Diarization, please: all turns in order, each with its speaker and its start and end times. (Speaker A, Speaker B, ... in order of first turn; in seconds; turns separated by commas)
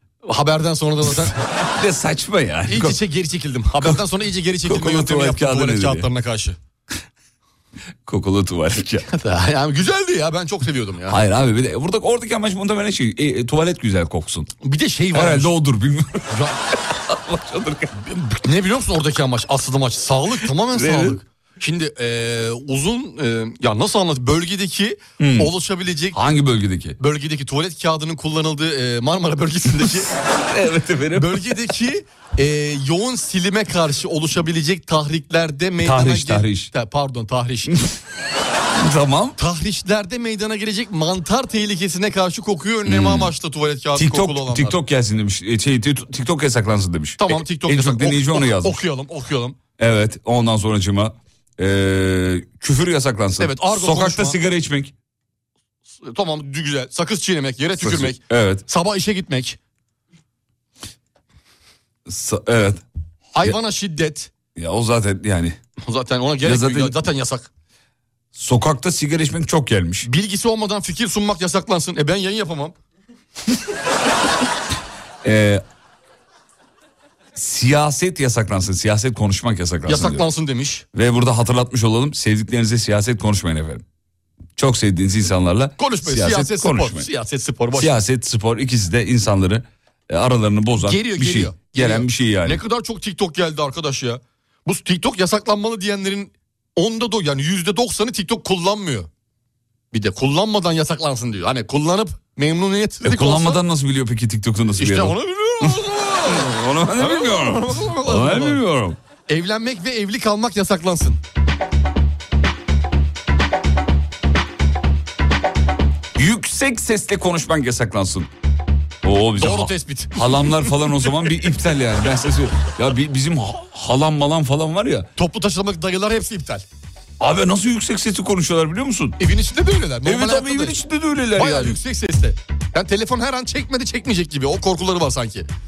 Speaker A: 0.2-1.3, Speaker B: 1.5-3.0, Speaker A: 2.7-6.6, Speaker B: 4.6-6.1, Speaker B: 8.1-9.1, Speaker A: 9.1-11.2, Speaker B: 11.1-14.5, Speaker A: 14.6-15.5, Speaker B: 15.1-18.0, Speaker A: 18.1-26.2, Speaker B: 20.7-21.2, Speaker B: 25.2-25.5, Speaker B: 26.1-27.0, Speaker A: 27.0-30.1, Speaker B: 30.3-31.5, Speaker A: 31.1-37.7, Speaker B: 35.8-36.7, Speaker B: 38.8-39.4, Speaker A: 39.4-44.7, Speaker B: 42.9-43.3, Speaker B: 43.9-48.8, Speaker A: 47.2-49.6, Speaker B: 49.8-54.9, Speaker A: 53.4-54.4, Speaker A: 56.0-59.6, Speaker B: 57.8-58.6, Speaker B: 62.1-62.8, Speaker A: 63.3-64.3, Speaker B: 64.5-65.6, Speaker A: 65.8-67.5, Speaker B: 66.4-67.0, Speaker B: 68.3-70.1, Speaker A: 70.0-72.7, Speaker B: 75.2-75.6, Speaker B: 77.3-80.2, Speaker A: 79.8-80.8, Speaker B: 80.9-83.8, Speaker B: 84.6-87.1, Speaker A: 85.8-87.9, Speaker B: 87.7-92.6, Speaker A: 90.8-99.1, Speaker A: 99.9-103.6, Speaker B: 103.0-109.0, Speaker A: 104.8-108.6, Speaker A: 109.3-111.2, Speaker B: 116.2-118.3, Speaker B: 119.0-125.1, Speaker A: 119.4-120.8, Speaker A: 125.2-126.6, Speaker B: 127.2-129.2, Speaker A: 129.2-130.8, Speaker B: 130.0-131.8, Speaker A: 131.3-135.5